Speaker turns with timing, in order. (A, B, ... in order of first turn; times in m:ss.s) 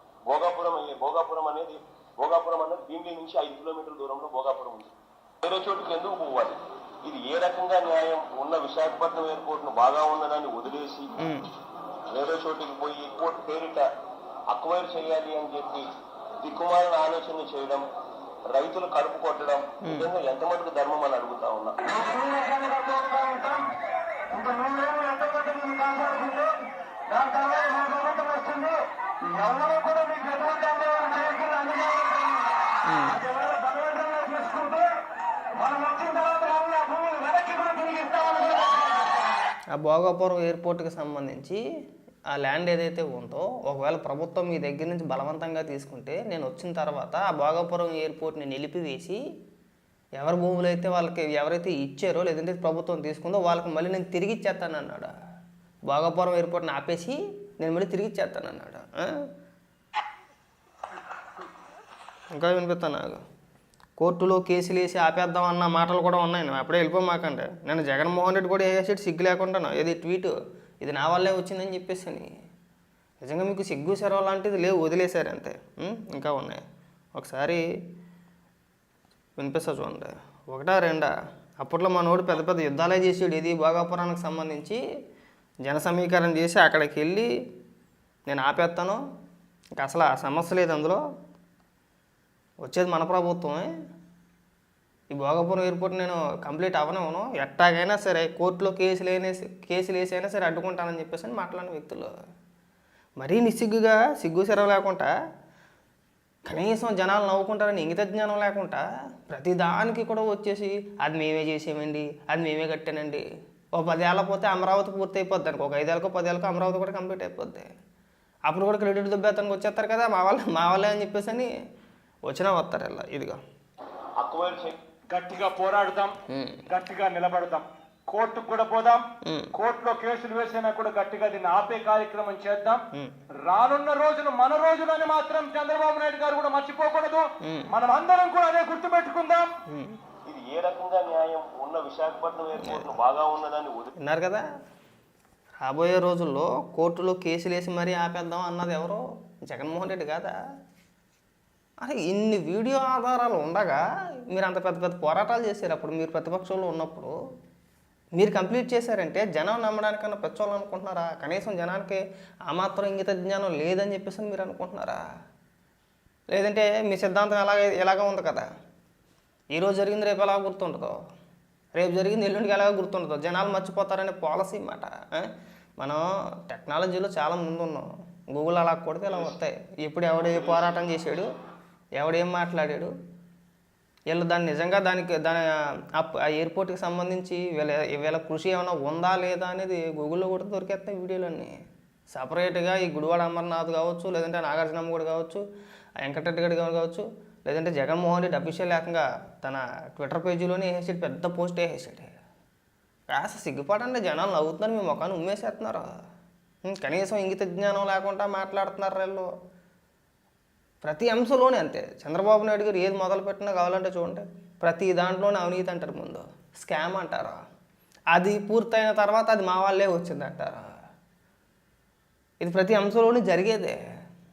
0:00.3-0:04.9 A
0:05.4-0:11.1 A
0:11.2-0:11.5 B
0:12.1-0:13.9 A
0:14.5-0:15.9 A
0:16.4-0:17.8 A
0:18.5-0:21.8 A
0:19.8-0:20.1 B
0:21.8-0:23.7 C
0:24.3-0:34.9 C
0:32.9-0:33.2 B
0:35.5-0:39.1 C
0:39.8-0:41.6 B
0:42.3-0:49.2 B
0:50.2-0:55.1 B
0:55.9-0:59.1 B
1:02.3-1:03.2 B
1:04.0-1:12.3 B
1:13.2-1:16.6 B
1:17.2-1:17.6 B
1:19.4-1:21.1 B
1:21.6-1:24.8 B
1:25.6-1:27.3 B
1:28.3-1:29.0 B
1:29.8-1:31.0 B
1:32.6-1:33.7 B
1:35.1-1:42.1 B
1:43.2-1:45.1 B
1:46.5-1:53.2 B
1:53.8-1:57.7 B
1:58.5-2:01.5 B
2:02.3-2:03.4 B
2:04.2-2:04.8 A
2:05.1-2:06.2 C
2:06.3-2:06.6 B
2:06.7-2:12.8 C
2:09.2-2:09.5 B
2:13.5-2:19.5 C
2:19.7-2:20.0 B
2:20.3-2:23.9 A
2:22.6-2:23.0 B
2:24.0-2:24.4 B
2:25.6-2:30.3 B
2:31.8-2:37.1 B
2:38.2-2:45.0 B
2:46.3-2:48.5 B
2:49.6-2:51.0 B
2:51.8-2:55.3 B
2:55.8-3:01.3 B
2:59.1-2:59.4 A
3:00.2-3:00.8 A
3:02.0-3:02.9 B
3:04.1-3:11.5 B
3:12.1-3:15.4 B
3:16.0-3:22.2 B
3:23.1-3:25.9 B
3:26.6-3:29.3 B
3:30.8-3:37.4 B
3:38.1-3:40.7 B
3:42.4-3:43.8 B